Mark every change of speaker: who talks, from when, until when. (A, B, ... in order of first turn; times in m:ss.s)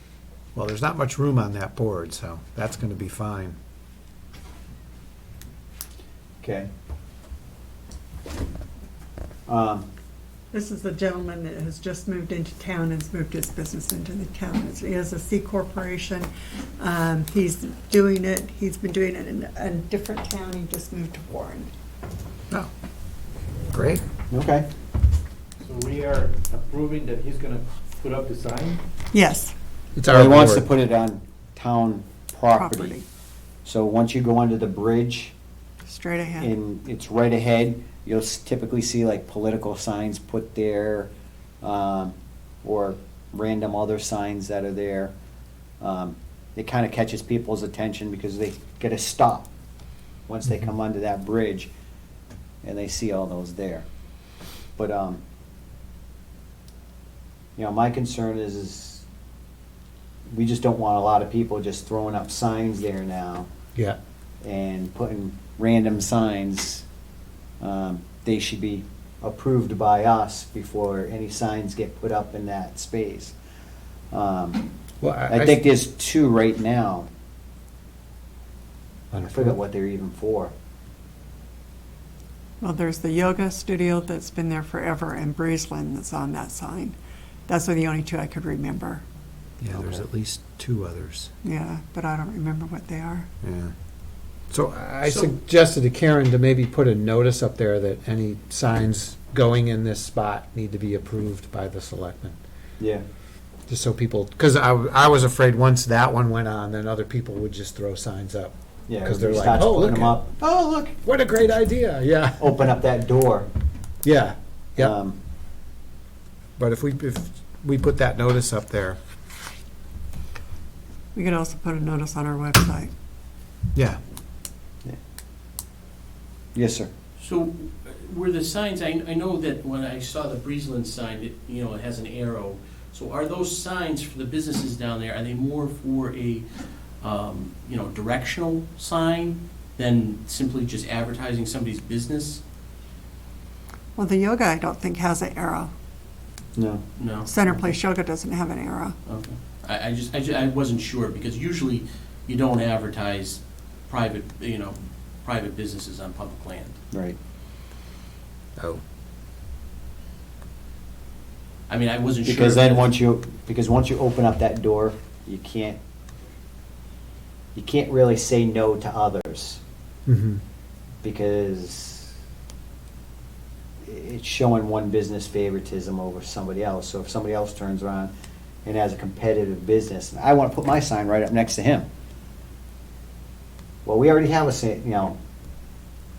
0:00.5-0:03.6 A
0:06.4-0:06.7 B
0:09.5-0:09.9 B
0:10.5-0:16.3 C
0:16.8-0:21.7 C
0:23.7-0:24.0 A
0:24.3-0:24.7 B
0:25.6-0:28.8 D
0:29.1-0:29.5 C
0:30.0-0:30.7 A
0:30.1-0:33.0 B
0:32.5-0:33.0 C
0:33.6-0:35.3 B
0:35.8-0:36.5 C
0:36.4-0:45.1 B
0:45.8-0:49.5 B
0:50.3-0:51.7 B
0:52.6-0:53.8 B
0:54.8-0:55.2 B
0:57.6-0:59.0 B
1:00.3-1:03.5 B
1:04.4-1:06.8 B
1:07.6-1:13.3 B
1:14.1-1:14.7 B
1:15.0-1:15.6 A
1:15.3-1:17.1 B
1:19.1-1:19.6 A
1:19.2-1:20.5 B
1:22.6-1:27.0 C
1:27.5-1:29.0 C
1:29.6-1:31.3 A
1:29.7-1:30.0 B
1:31.4-1:33.3 C
1:33.4-1:33.7 A
1:34.5-1:42.4 A
1:35.0-1:35.3 E
1:42.8-1:43.0 B
1:43.7-1:50.2 A
1:48.9-1:50.9 B
1:51.0-1:52.6 A
1:52.4-1:53.5 B
1:54.0-1:54.9 A
1:54.8-1:55.2 B
1:56.6-1:59.0 A
2:01.1-2:02.9 C
2:03.7-2:04.0 A
2:06.6-2:06.9 B
2:07.2-2:16.5 E
2:17.0-2:22.4 E
2:24.0-2:25.7 C
2:26.6-2:26.8 B
2:27.0-2:27.3 E
2:27.2-2:29.0 C
2:29.1-2:36.8 E
2:36.9-2:37.2 B
2:41.7-2:42.9 E
2:42.2-2:45.8 B
2:47.6-2:49.6 B
2:50.1-2:50.4 A
2:51.0-2:52.1 B
2:53.8-2:58.1 B
2:58.6-3:01.9 B
3:03.8-3:05.2 B